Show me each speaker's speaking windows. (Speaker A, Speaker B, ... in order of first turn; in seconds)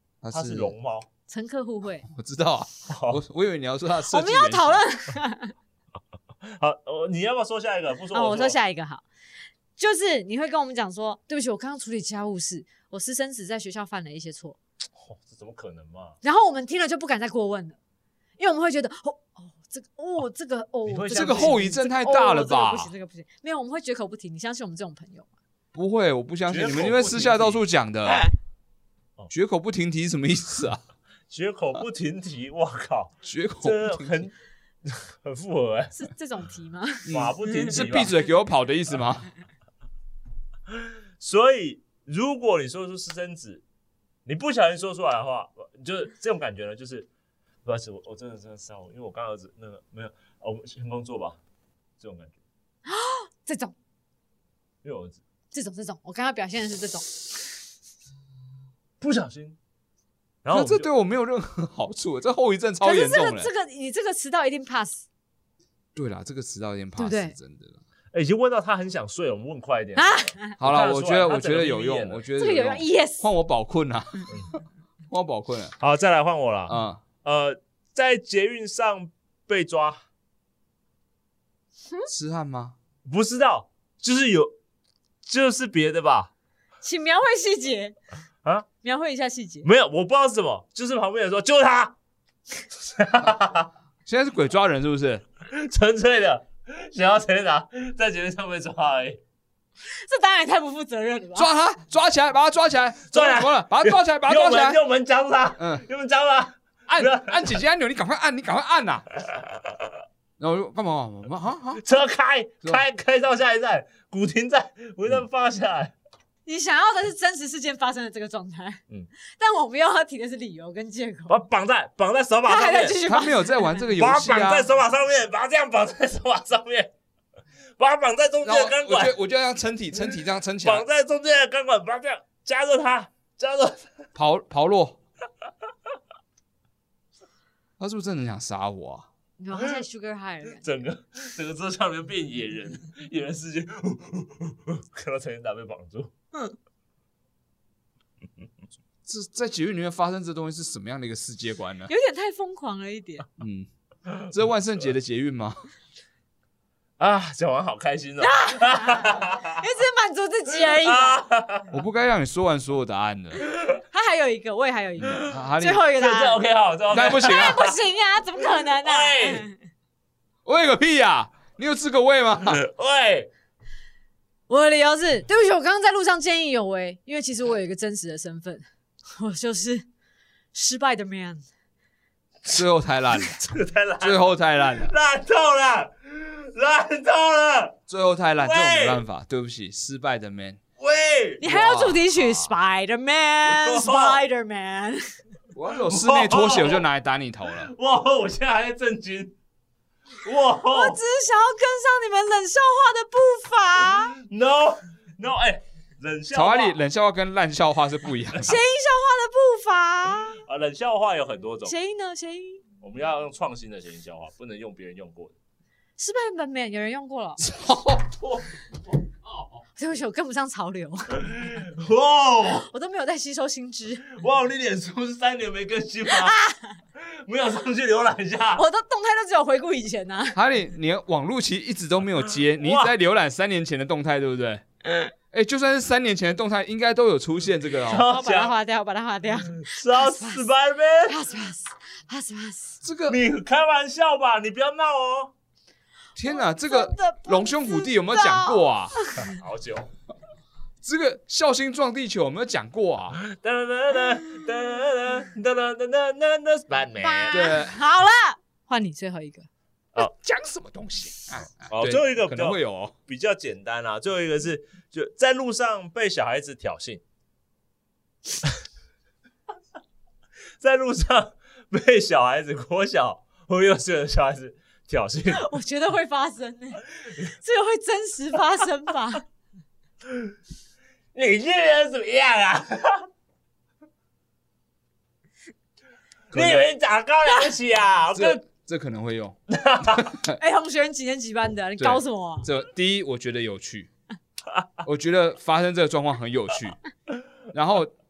Speaker A: 0.2-0.7, 2.1-4.8, 21.1-22.9, 25.7-28.3, 29.3-30.8, 33.2-34.2, 37.1-39.3, 60.5-63.5, 65.9-67.8, 70.6-74.4, 75.1-75.8, 76.7-77.0, 82.1-82.8, 94.1-95.2, 101.3-104.8, 105.6-105.8, 106.9-109.1, 110.4-111.8, 123.0-124.7, 128.4-130.8, 134.1-135.0, 137.8-139.1, 149.1-151.9, 153.4-153.7, 154.3-155.6, 161.7-163.4, 165.1-165.9, 166.9-167.6, 170.4-172.6, 182.5-183.4, 184.0-184.9, 187.9-190.6, 191.4-192.5, 195.5-197.7, 206.3-208.6, 217.4-218.1, 230.3-234.6, 235.3-238.1, 242.8-243.2, 246.2-248.9, 250.8-253.2, 257.3-257.8, 259.9-262.9, 286.3-286.7, 288.1-290.4, 291.8-293.9, 294.8-296.8, 297.5-297.9
Speaker B: 0.3-1.1, 2.9-3.2, 6.4-8.6, 15.0-16.2, 20.9-21.6, 26.5-27.6, 31.3-35.9, 37.1-38.2, 40.7-43.6, 44.2-47.1, 47.6-51.4, 52.0-52.4, 54.8-55.2, 59.0-59.6, 60.4-60.9, 68.1-72.2, 75.8-80.0, 83.0-84.5, 85.2-86.3, 89.6-91.9, 92.8-93.7, 95.5-99.2, 103.1-107.6, 111.8-115.9, 121.3-123.0, 124.0-126.9, 127.8-129.2, 130.6-133.9, 140.6-146.1, 157.0-159.6, 160.6-161.7, 165.9-167.8, 168.8-169.5, 172.5-173.3, 183.2-187.8, 188.4-189.0, 190.8-191.4, 193.4-194.2, 195.7-196.8, 197.5-199.3, 200.2-201.0, 204.2-206.8, 210.4-211.7, 212.8-215.3, 218.2-218.5, 221.2-222.7, 224.1-226.4, 227.0-228.6, 232.6-232.9, 237.8-238.6, 239.4-241.2, 243.1-245.3, 249.2-249.9, 253.2-257.5, 261.7-267.0, 270.6-275.5, 281.1-283.1, 286.3-288.4, 289.5-290.1
Speaker C: 1.3-2.1, 4.1-5.5, 8.1-9.1, 9.8-14.6, 16.2-17.8, 18.4-25.3, 35.9-37.5, 52.9-53.7, 55.5-57.1, 62.8-65.0, 67.0-67.3, 70.0-70.5, 72.4-73.3, 86.8-88.0, 88.8-89.7, 99.9-101.5, 116.5-121.4, 122.5-123.9, 139.4-140.8, 151.9-153.2, 158.2-161.2, 163.9-166.4, 167.0-169.6, 174.5-179.9, 180.5-181.4, 191.4-195.1, 200.7-204.2, 208.4-210.4, 211.6-212.6, 216.0-217.4, 219.8-221.4, 222.7-224.1, 226.1-226.8, 228.6-230.4, 237.9-240.4, 241.1-242.8, 246.2-249.3, 257.0-259.5, 275.3-279.2, 290.4-292.5